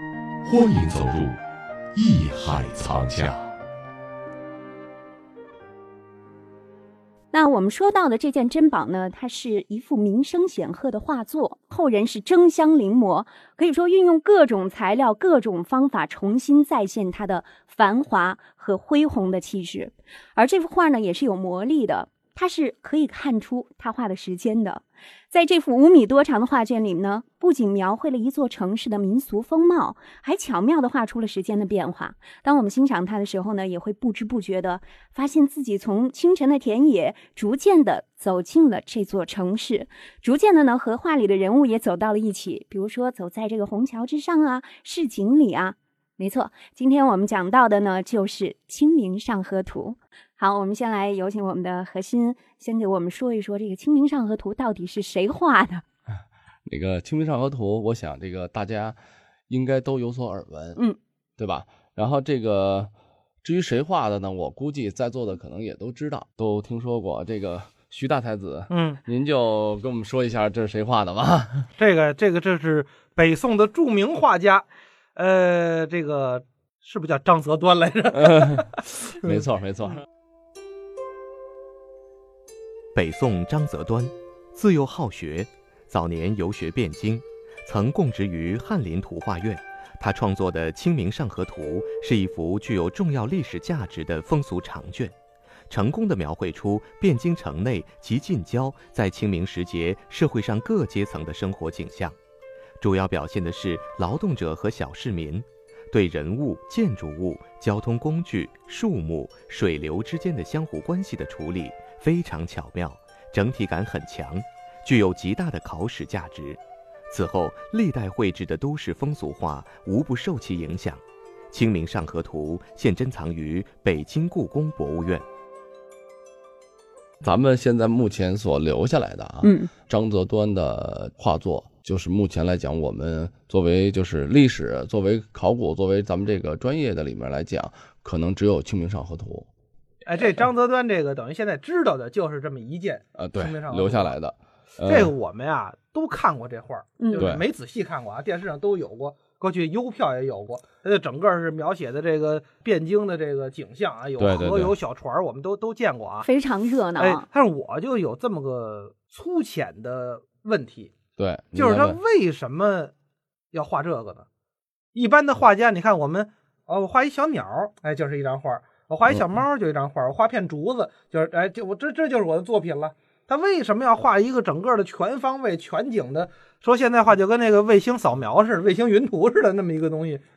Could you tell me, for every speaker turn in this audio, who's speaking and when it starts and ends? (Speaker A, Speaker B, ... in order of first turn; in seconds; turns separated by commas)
Speaker A: 0.4-1.4, Speaker A: 1.9-3.5, Speaker B: 7.3-55.8, Speaker C: 56.7-59.0, Speaker C: 59.5-60.8, Speaker C: 61.4-62.9, Speaker C: 63.4-71.7, Speaker D: 68.7-69.0, Speaker D: 71.8-79.4, Speaker C: 78.2-78.7, Speaker C: 79.2-80.0, Speaker E: 83.0-95.2, Speaker E: 95.7-102.2, Speaker E: 102.8-125.2, Speaker C: 127.2-139.5, Speaker B: 129.4-129.7, Speaker D: 140.1-144.2, Speaker C: 143.2-145.1, Speaker D: 144.9-156.3, Speaker B: 147.0-147.3, Speaker C: 147.2-147.4, Speaker C: 154.2-154.8, Speaker B: 156.2-157.3, Speaker D: 157.0-160.9, Speaker C: 161.2-162.0, Speaker D: 161.6-162.9, Speaker D: 163.5-164.3, Speaker D: 164.9-180.2